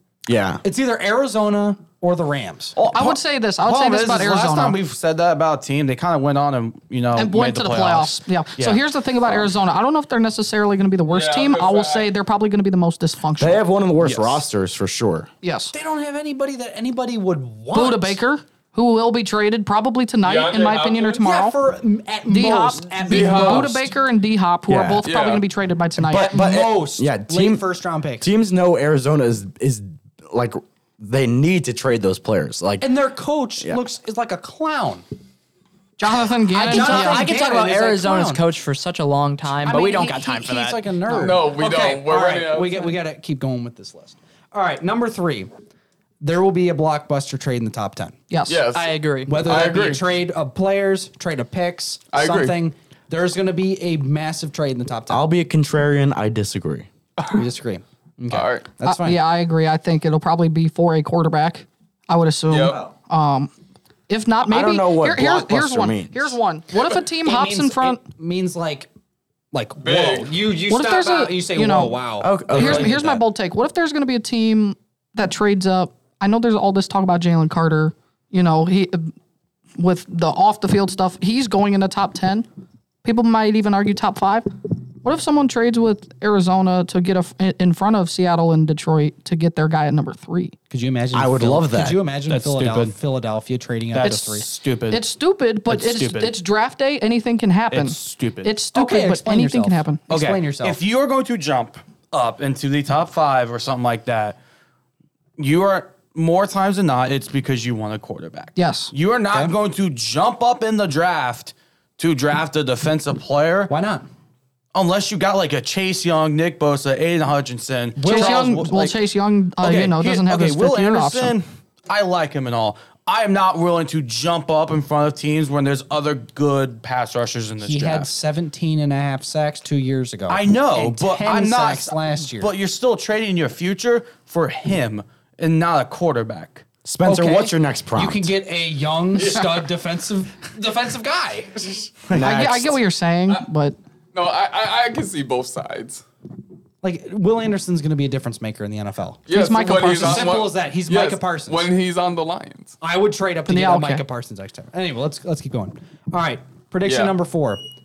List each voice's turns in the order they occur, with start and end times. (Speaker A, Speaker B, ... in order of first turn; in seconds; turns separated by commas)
Speaker A: 0.3-0.6, Speaker B: 0.6-2.8, Speaker C: 2.8-8.8, Speaker D: 2.9-4.8, Speaker D: 7.2-13.6, Speaker E: 11.1-12.1, Speaker A: 13.4-15.3, Speaker D: 15.4-15.7, Speaker B: 15.7-18.2, Speaker D: 17.7-21.6, Speaker E: 20.2-21.2, Speaker B: 21.2-23.9, Speaker D: 22.3-26.3, Speaker E: 23.1-23.8, Speaker A: 24.7-25.1, Speaker E: 25.1-25.4, Speaker A: 26.1-27.6, Speaker B: 26.1-28.3, Speaker A: 28.2-32.9, Speaker B: 32.8-35.0, Speaker D: 36.0-37.3, Speaker B: 36.5-38.4, Speaker F: 36.6-41.3, Speaker B: 39.6-45.5, Speaker E: 41.1-43.0, Speaker B: 46.2-48.2, Speaker D: 48.3-48.6, Speaker E: 48.5-50.0, Speaker F: 48.7-49.5, Speaker B: 49.3-55.2, Speaker E: 52.1-52.6, Speaker A: 55.1-56.9, Speaker B: 57.3-59.2, Speaker E: 58.3-58.6, Speaker D: 58.8-63.5, Speaker E: 62.5-62.8, Speaker D: 64.1-68.0, Speaker A: 64.5-66.4, Speaker B: 67.2-68.9, Speaker B: 69.5-73.0, Speaker E: 69.8-70.4, Speaker D: 70.7-72.0, Speaker A: 72.2-73.2, Speaker D: 72.5-79.1, Speaker D: 79.8-82.5, Speaker D: 83.0-84.5, Speaker D: 85.0-90.6, Speaker B: 90.7-94.5, Speaker A: 91.1-92.0, Speaker C: 92.3-93.0, Speaker C: 93.9-95.0, Speaker D: 94.0-100.0, Speaker C: 95.7-96.4, Speaker C: 97.7-98.6, Speaker B: 98.7-100.8, Speaker C: 100.1-104.4, Speaker C: 105.4-113.7, Speaker D: 108.6-108.9, Speaker B: 113.7-114.1, Speaker C: 114.7-119.0, Speaker B: 118.0-118.6, Speaker D: 118.0-121.4, Speaker C: 119.6-128.1, Speaker B: 127.6-132.5, Speaker C: 130.3-136.7, Speaker A: 136.8-138.3, Speaker B: 137.1-142.0, Speaker E: 139.2-139.5, Speaker A: 142.1-142.8, Speaker D: 142.2-143.8, Speaker E: 144.1-146.0, Speaker B: 146.8-151.7, Speaker E: 149.3-152.8, Speaker D: 149.3-150.4, Speaker B: 152.8-157.6, Speaker D: 153.5-154.0, Speaker E: 156.8-157.1